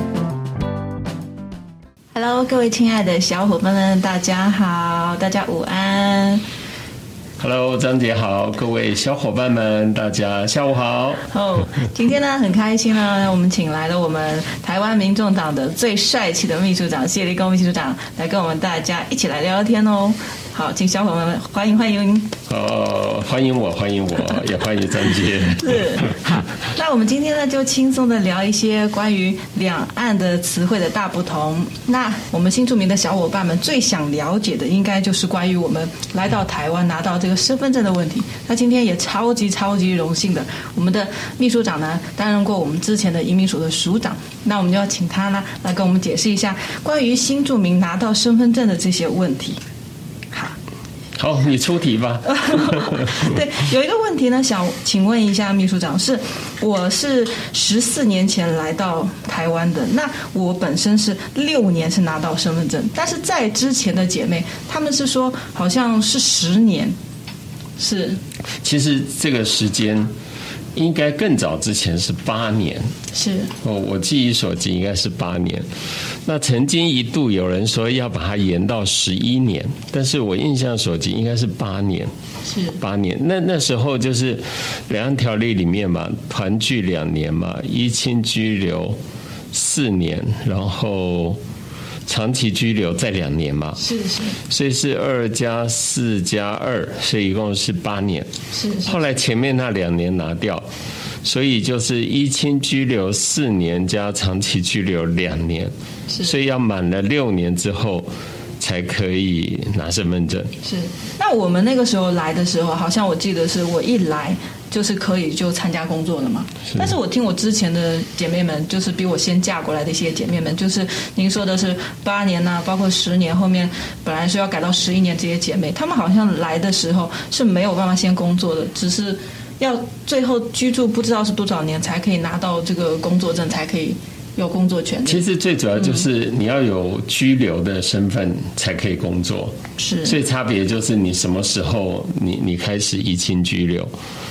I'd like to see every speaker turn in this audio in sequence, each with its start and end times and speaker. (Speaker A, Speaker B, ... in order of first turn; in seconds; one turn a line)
Speaker A: 2.1-6.4
Speaker B: 7.4-11.2
Speaker A: 11.3-22.3
Speaker B: 22.5-26.1
Speaker A: 25.6-49.6
Speaker B: 51.2-53.2
Speaker A: 52.3-66.9
Speaker A: 67.8-68.2
Speaker B: 68.6-70.1
Speaker B: 70.7-72.9
Speaker A: 73.1-73.5
Speaker B: 73.6-75.7
Speaker B: 76.2-82.1
Speaker A: 82.5-82.8
Speaker B: 82.8-89.0
Speaker B: 89.5-91.4
Speaker B: 92.0-93.8
Speaker A: 93.8-94.4
Speaker B: 94.4-98.3
Speaker A: 98.5-99.0
Speaker B: 98.8-100.7
Speaker B: 101.2-108.1
Speaker B: 108.6-110.5
Speaker A: 110.6-135.2
Speaker B: 135.1-143.9
Speaker A: 139.8-140.2